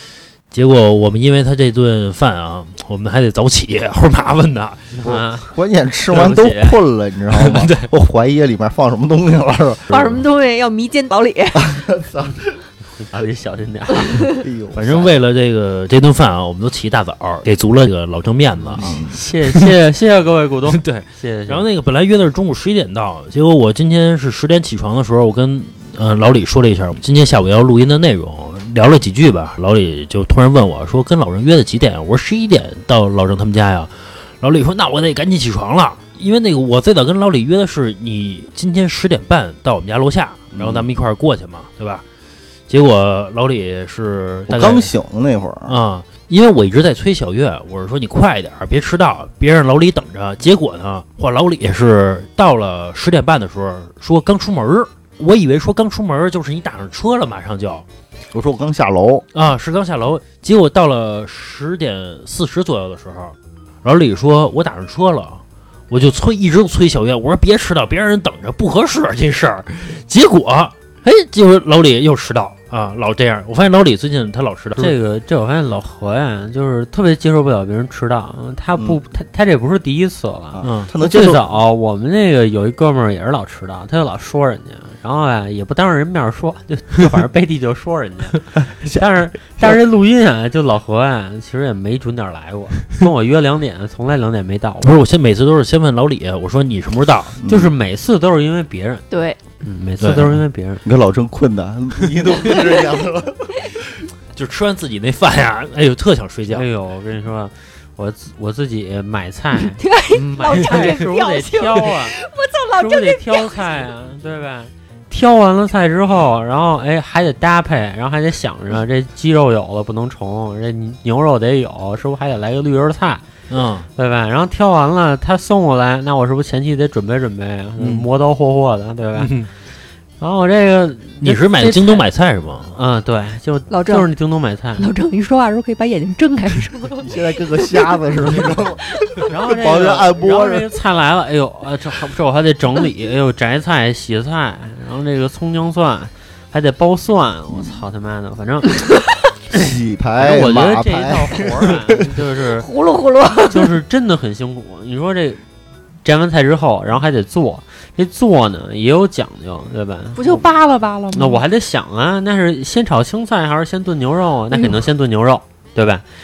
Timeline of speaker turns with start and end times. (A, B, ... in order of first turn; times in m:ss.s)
0:00.5-0:05.0 A
0:05.0-0:05.5 B
0:05.0-0:09.8 C
0:06.1-0:06.8 B
0:07.4-0:07.9 A
0:09.9-0:11.8 D
0:11.6-0:12.4 C
0:12.9-0:14.4 B
0:14.4-0:15.1 C
0:14.7-0:19.6 A
0:18.7-0:19.2 C
0:18.7-0:21.7 B
0:20.7-0:42.0 A
0:40.5-0:40.9 C
0:42.7-0:44.9 A
0:44.5-0:45.8 C
0:45.7-0:57.8 A
0:58.3-0:59.2 C
0:59.3-1:15.0 A
1:14.8-1:35.0 B
1:20.5-1:21.4 C
1:20.6-1:20.9 A
1:34.8-1:37.4 A
1:37.4-1:37.7 C
1:37.4-1:39.1 B
1:39.1-1:39.4 D
1:39.6-1:40.8 B
1:40.0-1:40.4 A
1:40.8-1:43.7 C
1:44.3-1:46.6 A
1:46.5-1:49.8 B
1:49.8-1:53.8 D
1:50.2-1:50.6 C
1:50.4-1:52.2 B
1:52.8-2:03.2 B
2:03.5-2:03.8 A
2:04.0-2:09.3 B
2:07.8-2:08.0 A
2:09.2-2:09.5 A
2:10.2-2:12.1 B
2:11.2-2:12.8 A
2:12.7-2:14.9 B
2:13.7-2:14.1 D
2:14.8-2:18.0 D
2:17.0-2:20.6 C
2:18.9-2:19.3 D
2:19.3-2:28.7 B
2:29.5-2:32.0 C
2:30.2-2:32.7 B
2:32.6-2:33.7 D
2:33.5-2:35.4 B
2:36.0-2:40.4 B
2:40.2-2:41.4 D
2:41.1-2:46.0 B